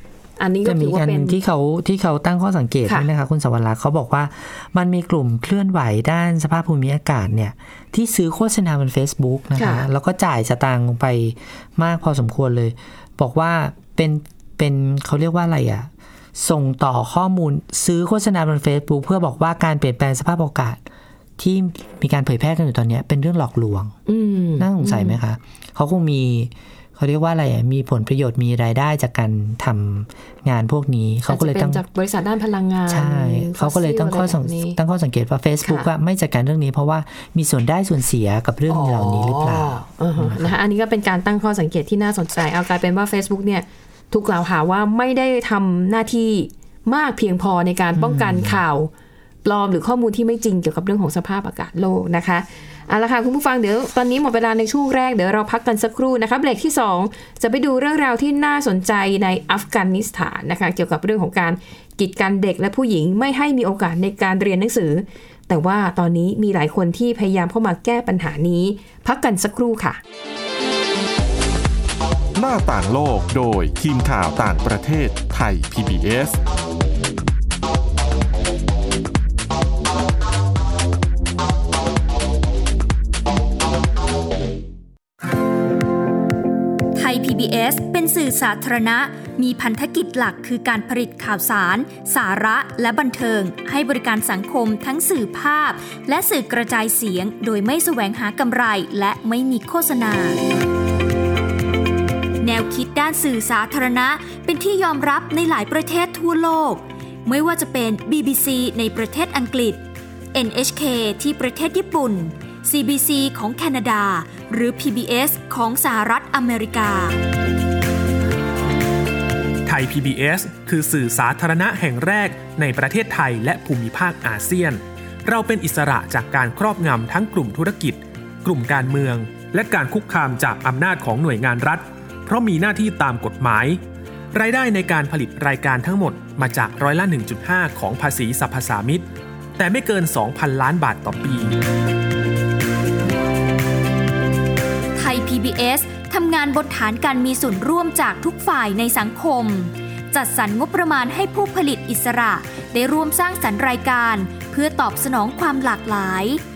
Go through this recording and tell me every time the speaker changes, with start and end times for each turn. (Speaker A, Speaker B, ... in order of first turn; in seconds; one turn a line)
Speaker A: 0.4-1.4
Speaker B: 0.6-20.8
Speaker A: 9.6-9.8
Speaker B: 21.4-23.9
Speaker A: 24.1-25.2
Speaker B: 24.6-31.8
Speaker A: 31.3-34.8
Speaker B: 32.9-40.5
Speaker A: 38.7-48.9
Speaker B: 48.0-48.6
Speaker A: 49.4-70.0
Speaker C: 72.3-76.4
Speaker D: 87.0-100.4
Speaker D: 102.4-109.8
Speaker D: 110.3-117.2
Speaker E: 119.7-133.8
Speaker E: 134.3-139.0
Speaker E: 139.6-141.6
Speaker D: 144.9-156.4